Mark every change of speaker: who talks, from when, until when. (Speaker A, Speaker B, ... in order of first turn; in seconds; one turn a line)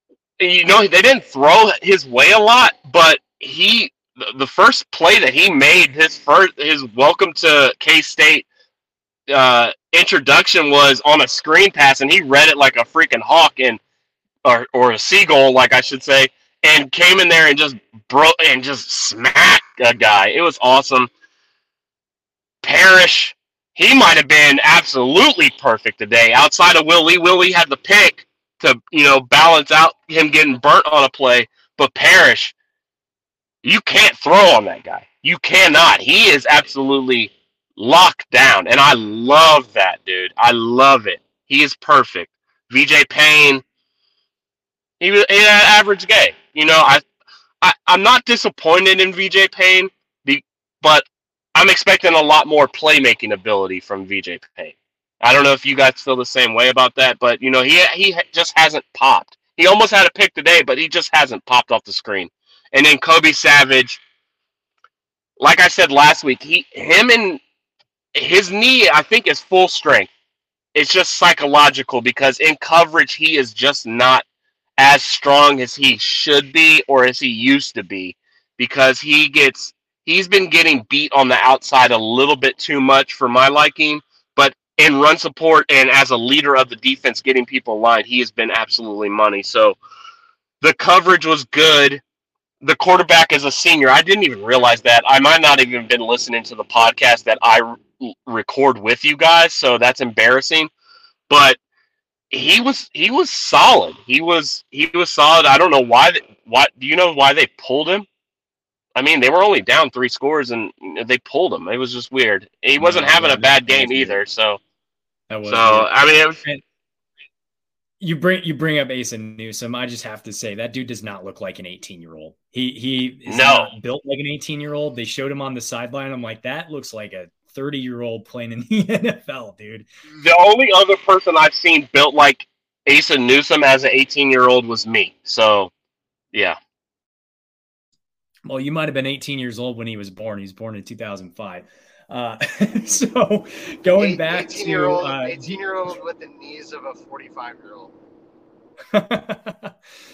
Speaker A: 0.4-8.5
Speaker A: 9.3-13.8
Speaker A: 14.4-21.1
Speaker A: 22.6-32.5
Speaker A: 33.6-43.6
Speaker A: 45.0-47.0
Speaker A: 47.6-64.0
Speaker A: 65.4-67.4
Speaker A: 68.2-70.1
Speaker A: 70.8-74.2
Speaker A: 74.8-89.8
Speaker A: 90.6-92.0
Speaker A: 92.6-100.7
Speaker A: 101.3-101.6
Speaker A: 102.3-108.1
Speaker A: 109.0-114.6
Speaker B: 112.8-114.2
Speaker B: 115.3-115.9
Speaker A: 115.5-116.4
Speaker B: 118.0-129.9
Speaker A: 123.3-123.7
Speaker A: 130.1-135.7
Speaker B: 138.5-145.6
Speaker C: 144.0-147.9
Speaker B: 148.9-149.7